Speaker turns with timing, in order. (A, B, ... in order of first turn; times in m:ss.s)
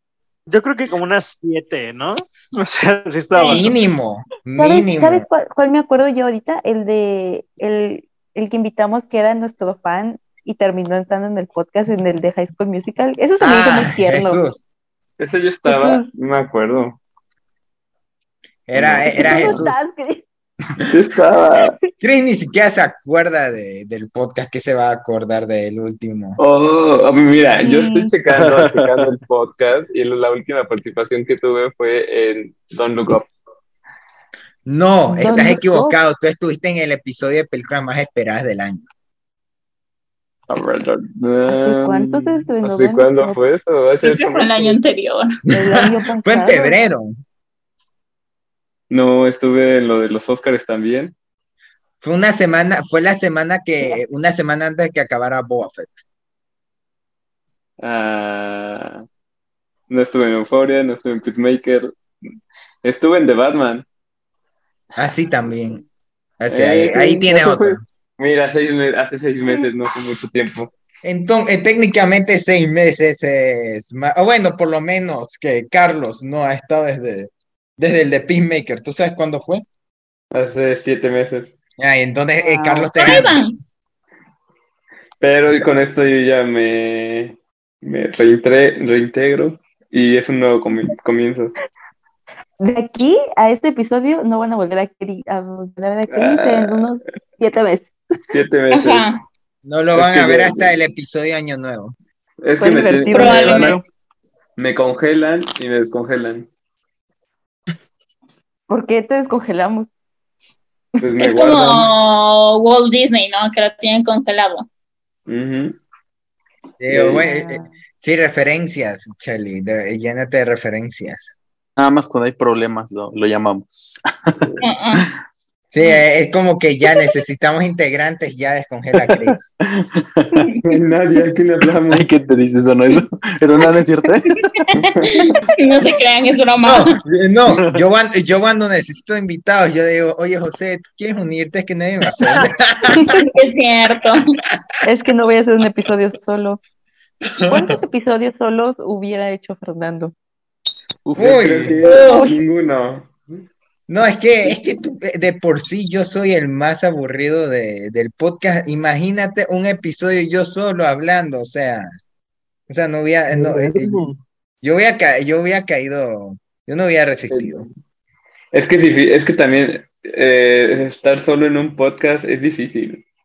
0:00.5-0:03.7 A
0:03.5-0:05.2 B
0:04.6-0:14.4 C
0:13.4-0:14.6 B
0:15.2-0:17.0 D
0:15.6-0:16.1 C
0:18.7-0:19.8 B
0:18.8-0:19.6 D
0:18.9-0:20.2 C
0:20.9-0:21.8 D
0:22.0-0:26.4 B
0:26.4-0:33.3 D
0:27.6-0:28.1 C
0:28.3-0:29.1 E
0:34.6-0:38.9 B
0:35.1-0:36.0 C
0:40.5-0:44.8 D
0:41.5-0:43.4 C
0:44.0-0:45.3 F
0:45.5-0:46.8 C
0:45.7-0:47.2 B
0:48.9-0:51.1 D
0:52.0-0:56.0 B
0:57.8-0:59.0 D
0:59.9-1:01.9 D
1:02.8-1:03.8 D
1:05.0-1:05.8 B
1:06.4-1:07.8 B
1:06.5-1:10.7 D
1:11.0-1:19.6 B
1:20.3-1:21.5 D
1:21.8-1:23.4 B
1:22.4-1:22.9 C
1:23.0-1:23.6 F
1:25.2-1:31.5 D
1:32.6-1:38.0 C
1:36.1-1:36.9 D
1:38.3-1:39.1 D
1:38.7-1:39.2 F
1:39.6-1:42.0 B
1:39.9-1:40.7 D
1:42.4-1:43.8 D
1:42.6-1:43.8 C
1:43.1-1:43.8 F
1:43.6-1:43.8 E
1:44.6-1:46.5 D
1:48.7-1:49.9 C
1:51.0-1:51.9 D
1:51.2-1:54.6 F
1:55.3-1:55.8 D
1:56.8-2:01.4 B
1:56.9-1:57.2 D
1:57.2-1:57.7 C
2:01.8-2:04.4 E
2:04.6-2:05.1 F
2:05.7-2:09.5 B
2:09.0-2:10.4 E
2:10.4-2:10.7 F
2:10.6-2:12.1 D
2:11.9-2:14.5 E
2:14.5-2:16.9 F
2:16.6-2:23.2 B
2:22.9-2:23.2 C
2:23.2-2:24.3 F
2:24.8-2:26.6 C
2:27.5-2:30.1 C
2:31.0-2:31.7 E
2:31.2-2:31.8 B
2:31.2-2:33.1 D
2:31.9-2:32.4 F
2:33.9-2:41.9 B
2:42.7-2:44.1 B
2:43.3-2:44.1 A
2:44.6-2:47.7 B
2:47.3-2:47.7 D
2:48.5-2:53.0 D